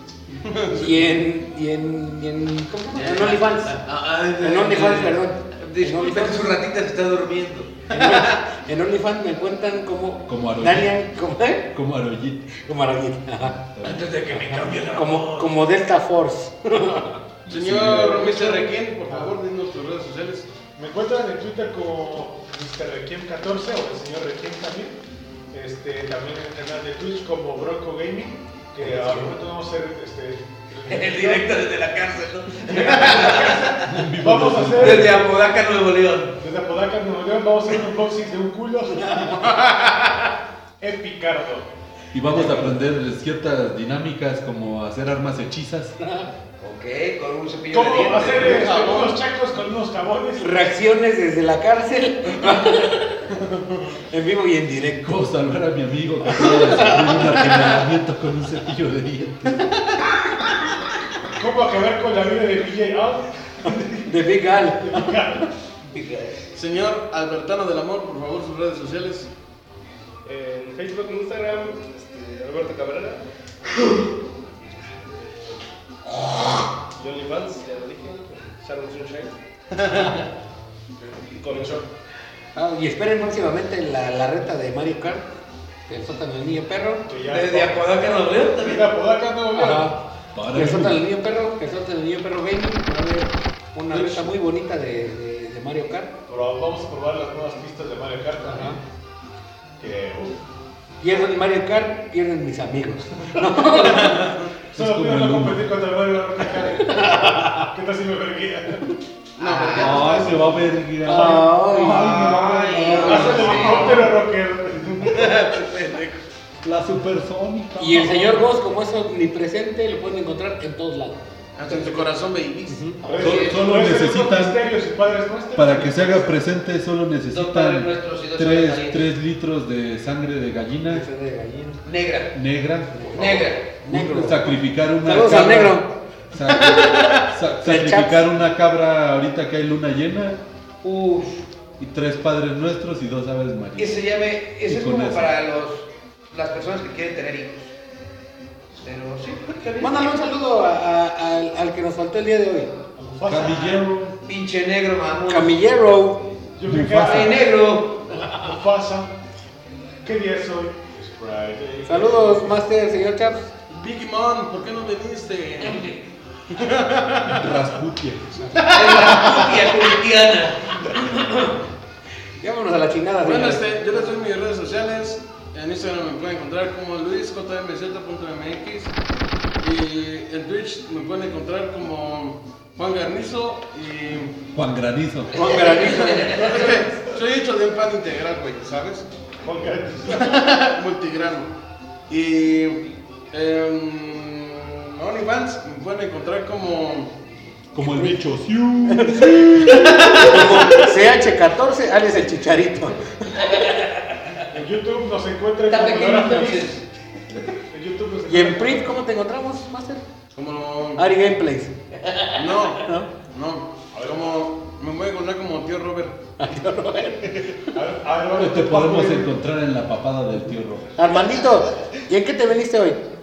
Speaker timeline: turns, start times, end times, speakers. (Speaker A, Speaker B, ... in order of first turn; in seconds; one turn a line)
Speaker A: 0.4-0.9
Speaker B: 0.7-3.7
Speaker C: 2.9-8.4
Speaker B: 4.4-6.5
Speaker B: 7.9-11.7
Speaker D: 10.3-11.0
Speaker D: 11.7-12.5
Speaker B: 12.5-13.6
Speaker D: 13.4-14.5
Speaker C: 13.8-15.5
Speaker B: 14.8-17.2
Speaker D: 17.4-18.4
Speaker A: 17.5-20.5
Speaker E: 19.1-19.3
Speaker E: 20.8-25.0
Speaker E: 25.5-31.6
Speaker C: 30.9-33.8
Speaker E: 32.5-35.2
Speaker D: 33.8-35.3
Speaker C: 34.8-36.4
Speaker E: 36.4-39.7
Speaker E: 40.8-41.7
Speaker D: 42.1-46.0
Speaker B: 42.4-42.7
Speaker B: 46.0-46.3
Speaker C: 46.6-48.7
Speaker E: 47.7-50.7
Speaker A: 48.2-49.2
Speaker B: 50.4-53.3
Speaker E: 53.5-53.9
Speaker B: 54.1-55.1
Speaker D: 55.0-59.7
Speaker B: 56.3-57.8
Speaker E: 61.4-65.5
Speaker B: 64.0-65.2
Speaker C: 65.9-66.4
Speaker A: 66.5-69.3
Speaker F: 70.2-73.2
Speaker F: 76.9-79.4
Speaker F: 81.1-81.9
Speaker B: 82.5-85.2
Speaker B: 85.9-87.1
Speaker E: 87.1-89.9
Speaker C: 87.2-89.0
Speaker B: 89.5-90.0
Speaker D: 90.3-91.0
Speaker B: 90.5-96.1
Speaker D: 93.9-94.3
Speaker E: 96.3-98.8
Speaker B: 98.4-98.8
Speaker E: 99.8-100.4
Speaker B: 101.0-104.3
Speaker E: 103.7-108.9
Speaker D: 104.7-105.7
Speaker B: 106.8-107.7
Speaker C: 109.4-110.3
Speaker A: 109.4-110.5
Speaker D: 109.7-113.9
Speaker B: 111.0-113.9
Speaker C: 111.8-114.1
Speaker E: 112.8-115.5
Speaker A: 115.0-116.2
Speaker D: 116.6-118.5
Speaker B: 117.8-122.0
Speaker A: 121.6-122.8
Speaker B: 122.7-123.0
Speaker E: 123.0-126.4
Speaker C: 123.1-123.6
Speaker D: 123.2-124.6
Speaker D: 125.5-131.0
Speaker C: 127.3-129.0
Speaker B: 130.9-131.8
Speaker C: 131.8-132.3
Speaker D: 132.3-133.3
Speaker B: 132.9-135.9
Speaker C: 133.1-133.7
Speaker D: 133.9-140.4
Speaker B: 137.6-138.2
Speaker C: 140.8-141.4
Speaker D: 141.8-144.0
Speaker C: 143.8-147.7
Speaker D: 144.7-145.3
Speaker C: 148.8-150.1
Speaker B: 149.8-152.7
Speaker E: 152.9-153.9
Speaker D: 153.2-154.2
Speaker C: 153.4-155.5
Speaker B: 155.3-156.2
Speaker E: 156.6-157.5
Speaker D: 156.7-157.4
Speaker C: 157.0-158.3
Speaker E: 158.2-159.1
Speaker E: 160.0-162.5
Speaker B: 161.8-163.5
Speaker A: 163.7-166.0
Speaker A: 166.5-167.6
Speaker D: 167.2-168.3
Speaker B: 168.4-168.7
Speaker A: 168.5-169.5
Speaker C: 168.7-171.5
Speaker B: 172.4-173.7
Speaker A: 173.2-178.9
Speaker A: 179.6-184.4
Speaker D: 184.5-185.6
Speaker C: 185.3-186.8
Speaker A: 185.3-189.1
Speaker E: 186.0-187.2
Speaker E: 189.4-190.6
Speaker A: 190.1-191.5
Speaker A: 192.1-197.1
Speaker D: 197.7-200.6
Speaker B: 197.8-198.2
Speaker B: 198.9-203.4
Speaker C: 199.8-200.4
Speaker C: 203.5-204.4
Speaker E: 204.5-206.8
Speaker C: 205.7-206.8
Speaker E: 207.7-208.9
Speaker B: 208.2-210.0
Speaker A: 210.3-211.0
Speaker B: 210.9-211.7
Speaker C: 212.0-212.6
Speaker A: 212.3-216.2
Speaker B: 212.8-213.1
Speaker E: 213.9-214.5
Speaker B: 216.4-217.6
Speaker E: 217.6-219.3
Speaker D: 218.3-220.9
Speaker B: 220.9-223.0